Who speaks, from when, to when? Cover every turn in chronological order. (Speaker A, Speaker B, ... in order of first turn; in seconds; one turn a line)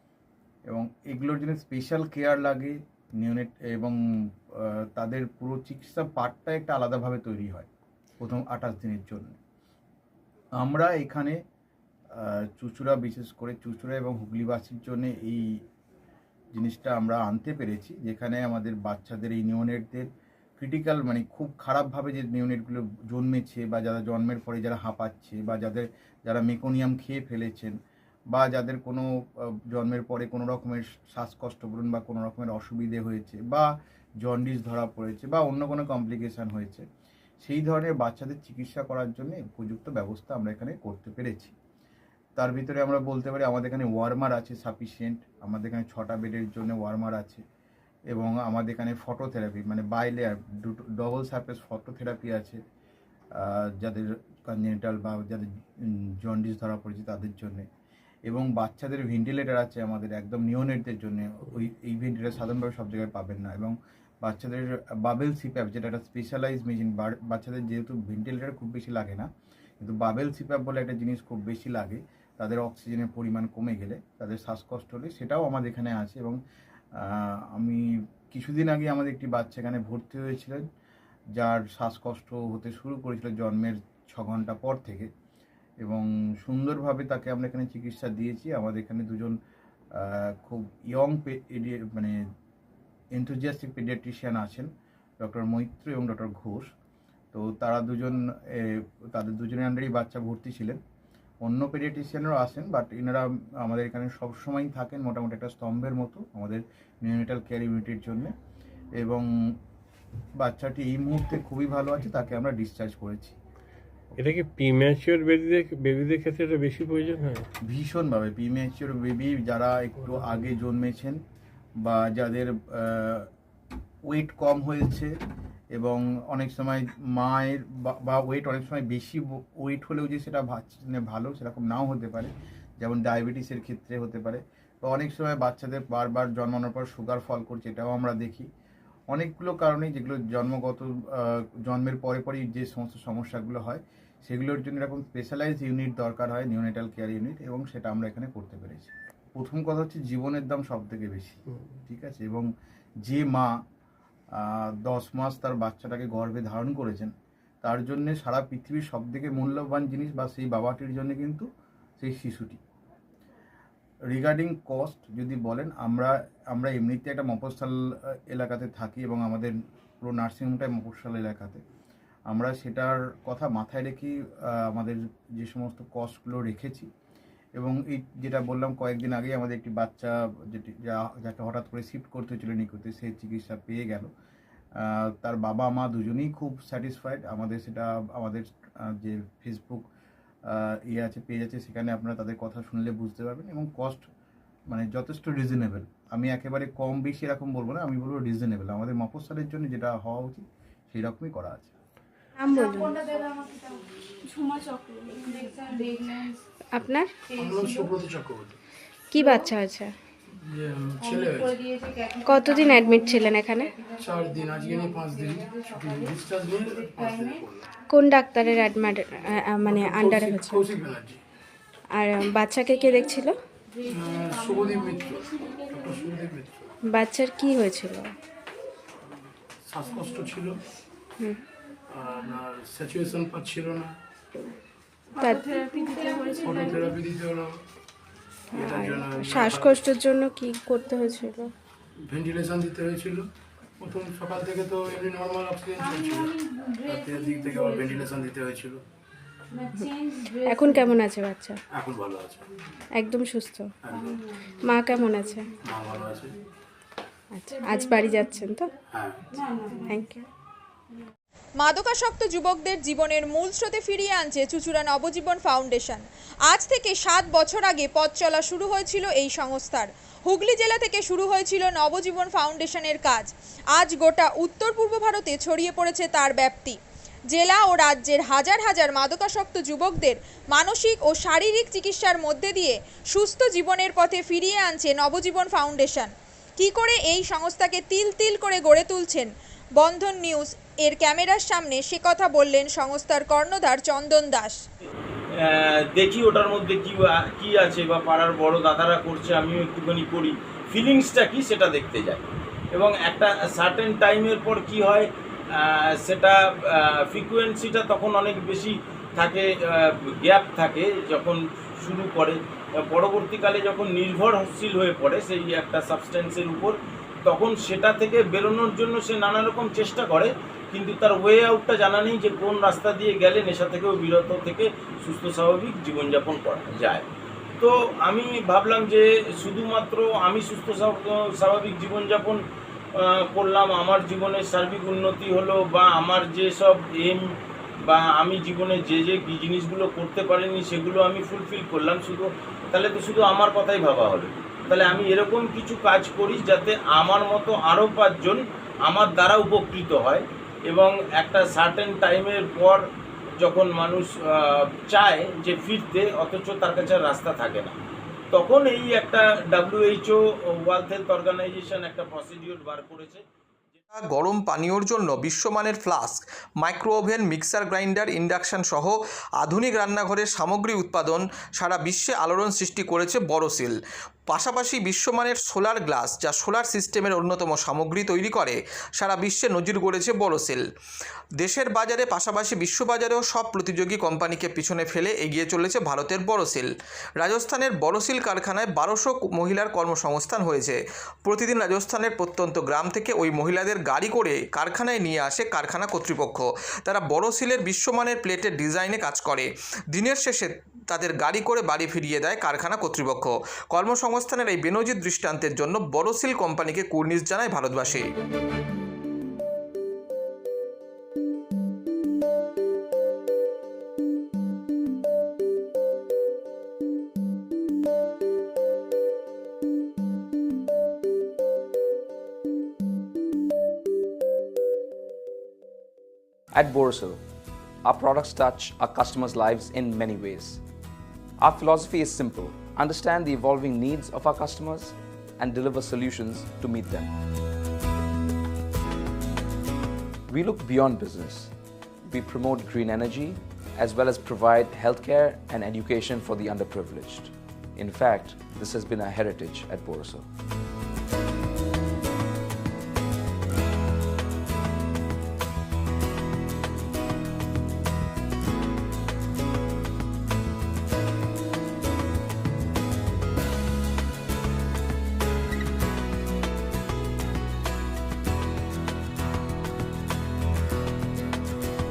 Speaker A: 0.7-4.0
Speaker A: 4.5-7.7
Speaker A: 8.2-9.4
Speaker A: 10.6-11.4
Speaker A: 12.2-15.6
Speaker A: 16.5-27.8
Speaker A: 28.3-33.7
Speaker A: 34.2-36.9
Speaker A: 37.4-41.5
Speaker A: 42.4-47.4
Speaker A: 48.1-52.6
Speaker A: 53.4-57.7
Speaker A: 58.3-69.3
Speaker A: 69.8-76.4
Speaker A: 77.0-80.7
Speaker A: 81.4-85.1
Speaker A: 85.8-89.3
Speaker A: 90.0-92.2
Speaker A: 93.1-94.7
Speaker A: 95.2-96.7
Speaker A: 97.3-100.8
Speaker A: 101.4-108.3
Speaker A: 109.0-109.3
Speaker A: 110.4-113.4
Speaker B: 114.2-117.4
Speaker A: 117.7-121.2
Speaker A: 121.8-123.3
Speaker A: 124.1-125.2
Speaker A: 125.7-138.5
Speaker A: 139.1-152.5
Speaker A: 153.1-153.6
Speaker A: 154.3-161.5
Speaker A: 162.0-162.6
Speaker A: 164.1-167.8
Speaker A: 168.3-171.6
Speaker A: 172.3-176.9
Speaker A: 177.6-184.1
Speaker A: 184.8-189.8
Speaker A: 190.5-194.1
Speaker A: 194.7-201.7
Speaker C: 202.4-203.0
Speaker C: 206.7-207.1
Speaker D: 207.4-208.6
Speaker C: 209.1-209.9
Speaker D: 210.5-211.6
Speaker C: 212.2-213.7
Speaker D: 214.0-217.7
Speaker C: 217.9-220.6
Speaker D: 219.7-221.2
Speaker C: 221.9-223.3
Speaker D: 223.9-226.7
Speaker C: 226.9-228.1
Speaker D: 229.7-230.6
Speaker D: 231.9-233.9
Speaker D: 236.4-237.6
Speaker C: 238.5-241.5
Speaker D: 238.6-239.8
Speaker D: 242.1-243.2
Speaker D: 243.8-246.3
Speaker D: 246.8-248.8
Speaker C: 250.4-251.6
Speaker D: 251.7-252.5
Speaker C: 253.0-253.7
Speaker D: 253.8-254.2
Speaker C: 254.6-255.5
Speaker D: 255.6-256.3
Speaker C: 257.3-258.7
Speaker D: 258.9-259.2
Speaker C: 259.8-260.2
Speaker E: 261.6-276.8
Speaker E: 277.3-294.6
Speaker F: 295.4-327.1
Speaker F: 327.6-332.4
Speaker F: 333.0-337.2
Speaker F: 337.9-352.8
Speaker F: 353.4-357.8
Speaker F: 358.3-363.2
Speaker G: 363.9-373.8
Speaker G: 374.3-380.6
Speaker G: 381.4-386.7
Speaker G: 387.2-408.1
Speaker H: 426.5-427.2
Speaker H: 427.8-430.6
Speaker H: 431.4-437.1
Speaker H: 440.3-441.5
Speaker H: 442.1-450.3